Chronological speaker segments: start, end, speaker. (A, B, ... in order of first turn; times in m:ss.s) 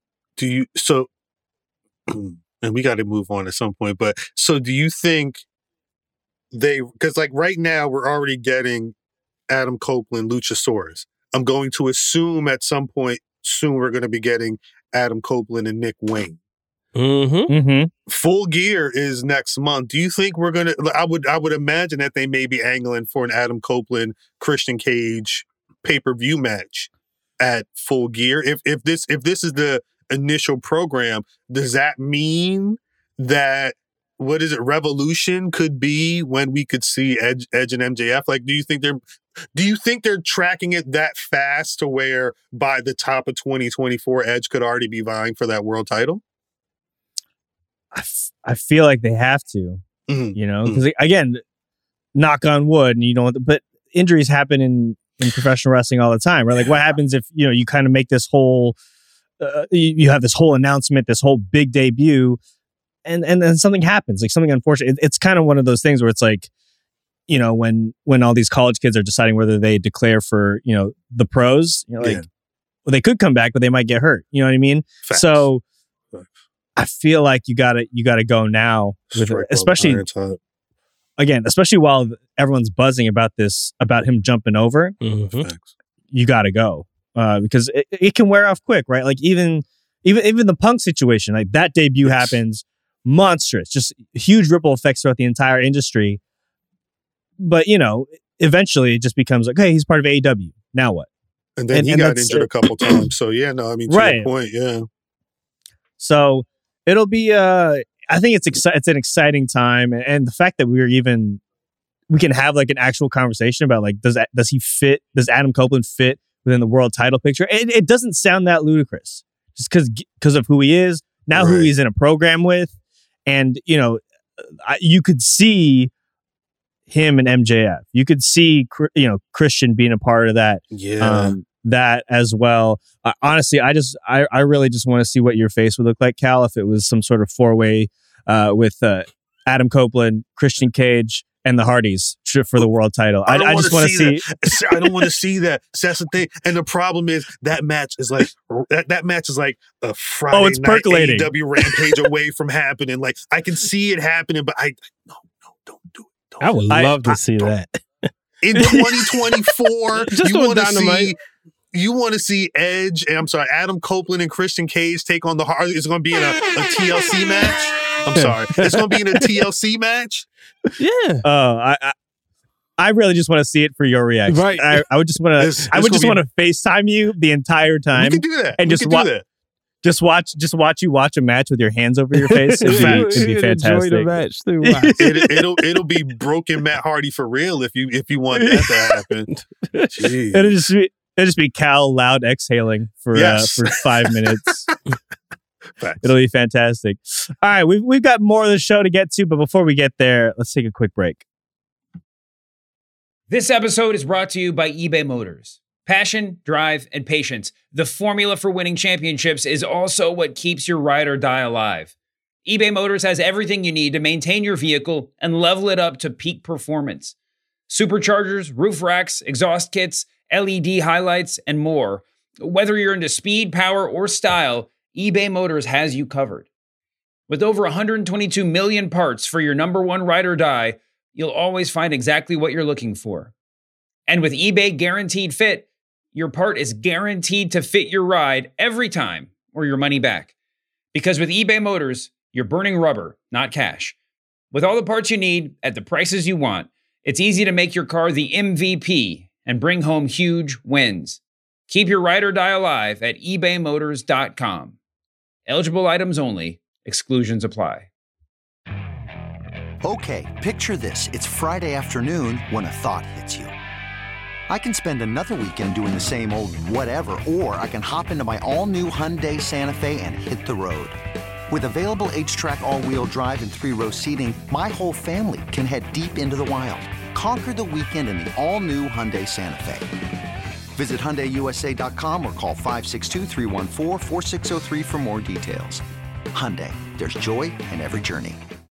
0:00.4-0:01.1 A
0:02.1-0:05.4 A
0:06.5-0:08.9 A
0:09.5-0:16.4 A
0:17.0-0:17.5 B
0:17.5-0:17.9 C
0:18.1-0:39.0 A
0:39.5-0:46.2 A
0:47.9-0:49.8 C
0:50.1-0:50.8 A
0:50.3-0:51.4 C
0:52.1-0:58.7 C
0:59.4-1:02.4 C
1:03.0-1:06.5 C
1:07.3-1:12.2 C
1:12.0-1:12.2 A
1:12.8-1:15.6 C
1:15.0-1:15.5 A
1:16.8-1:20.0 C
1:19.1-1:20.4 A
1:21.2-1:25.0 C
1:25.0-1:25.5 B
1:25.4-1:25.7 A
1:26.1-1:36.2 C
1:32.0-1:32.4 A
1:37.4-1:41.1 C
1:41.6-1:44.8 A
1:41.7-1:43.0 C
1:43.9-1:44.3 C
1:46.0-1:51.4 C
1:52.1-2:02.7 C
2:01.3-2:01.7 A
2:03.3-2:04.0 C
2:04.6-2:05.9 C
2:06.9-2:25.0 C
2:10.7-2:11.3 A
2:23.3-2:36.5 A
2:30.3-2:31.3 C
2:36.4-2:37.8 B
2:36.7-2:37.0 C
2:38.4-2:41.1 A
2:38.5-2:39.3 B
2:39.9-2:41.1 B
2:41.7-2:50.3 A
2:48.2-2:49.3 B
2:50.8-2:51.2 B
2:51.2-2:51.9 C
2:52.8-2:59.1 C
2:54.3-2:54.8 B
2:55.4-2:56.2 A
2:57.9-2:59.2 A
2:59.8-3:04.1 C
3:02.2-3:05.1 B
3:02.6-3:03.2 A
3:04.6-3:05.2 C
3:05.0-3:09.3 A
3:09.3-3:10.0 B
3:09.9-3:10.5 A
3:10.3-3:14.6 C
3:13.1-3:14.5 A
3:15.8-3:16.0 A
3:16.0-3:21.2 C
3:23.3-3:31.9 D
3:32.4-3:37.1 D
3:37.7-3:46.5 D
3:47.3-3:53.3 D
3:54.1-4:00.3 D
4:00.9-4:04.0 D
4:04.5-4:14.8 D
4:15.5-4:17.9 D
4:19.8-4:23.5 E
4:24.5-4:31.0 E
4:31.5-4:39.9 E
4:40.7-4:48.4 E